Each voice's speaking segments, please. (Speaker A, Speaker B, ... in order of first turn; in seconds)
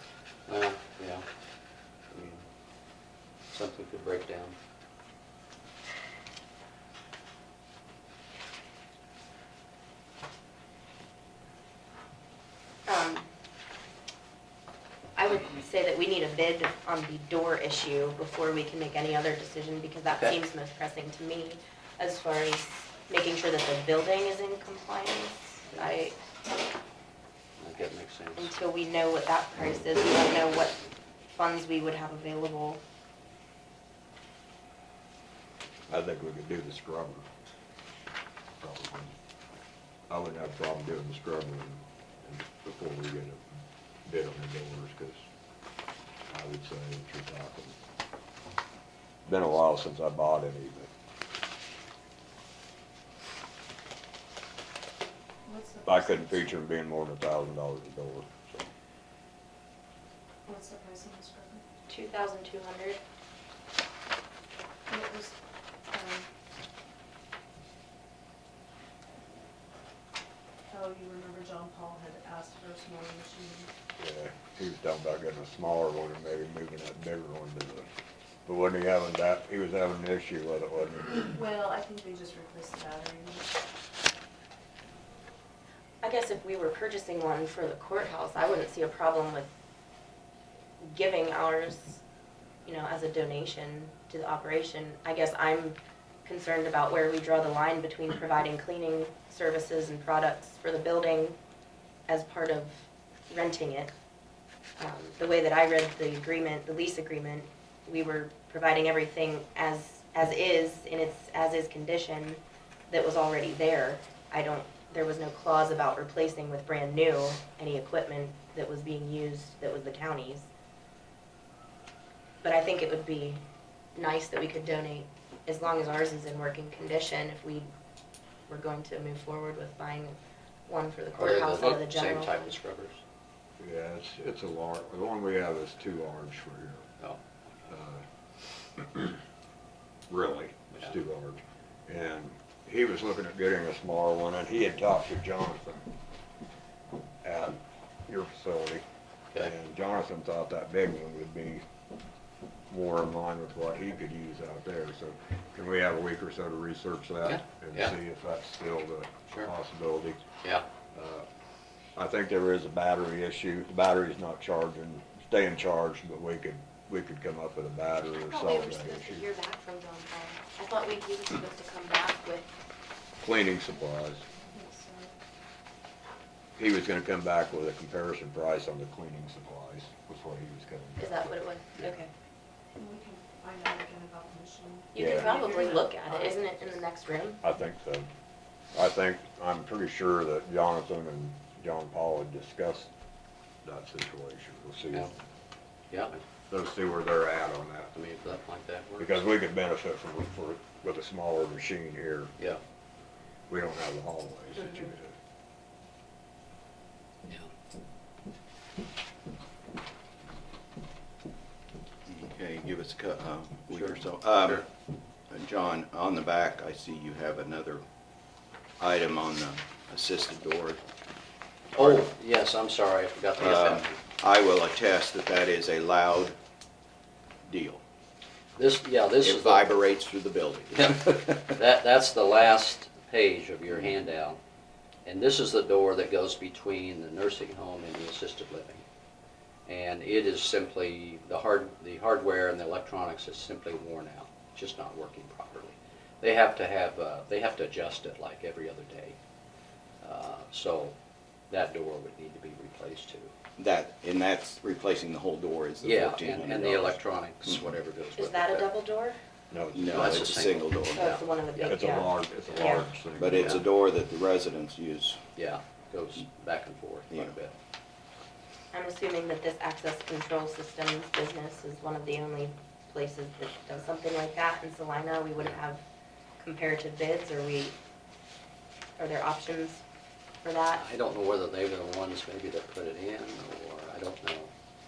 Speaker A: 0.5-1.2, 2.1-2.4, 3.5-4.5, 27.6-28.5, 131.1-133.0, 137.0-137.7, 157.2-157.9, 195.9-196.2, 197.9-199.3, 213.7-214.6, 221.7-224.0, 228.6-229.7, 230.7-234.4, 235.0-238.8, 239.7-249.2, 250.0-250.9, 251.5-253.3, 255.8-258.7, 259.9-262.0, 263.3-263.6, 265.4-267.5, 280.7-284.5
Speaker B: 12.9-13.3, 15.2-26.2, 28.4-30.8, 31.4-32.8, 61.9-63.0, 86.0-89.5, 90.8-92.0, 92.6-101.4, 102.1-103.9, 104.8-120.5, 122.4-123.4, 123.9-127.7, 128.5-132.6, 168.2-172.5, 181.0-182.1, 184.9-187.4, 258.2-259.2, 260.9-262.9, 268.7-275.8, 276.4-277.7, 279.0-279.8, 280.4-280.8
Speaker C: 35.9-37.2, 38.6-39.1, 40.1-43.4, 44.0-45.2, 46.3-47.8, 49.2-50.9, 55.8-58.6, 74.0-77.9, 78.5-81.3, 133.6-136.9, 137.7-138.0, 138.8-139.2, 140.1-145.9, 147.2-148.8, 149.3-151.6, 152.7-160.2, 160.9-161.3, 161.9-169.2, 173.2-174.2, 176.6-181.9, 185.0-185.3, 187.4-188.1, 188.7-192.9, 193.6-195.1, 196.5-197.9, 199.0-202.3, 203.5-205.2, 259.5-260.3, 261.6-263.6
Speaker D: 55.5-56.5, 60.5-61.6, 64.9-65.3, 65.9-66.2, 70.7-73.7, 81.3-83.5, 174.4-175.1, 182.8-186.5
Speaker E: 212.1-214.7, 215.3-217.8, 218.8-220.8, 221.7-222.1, 223.4-226.3, 227.5-227.8, 229.2-231.6, 253.6-257.7, 259.7-261.2, 263.1-265.2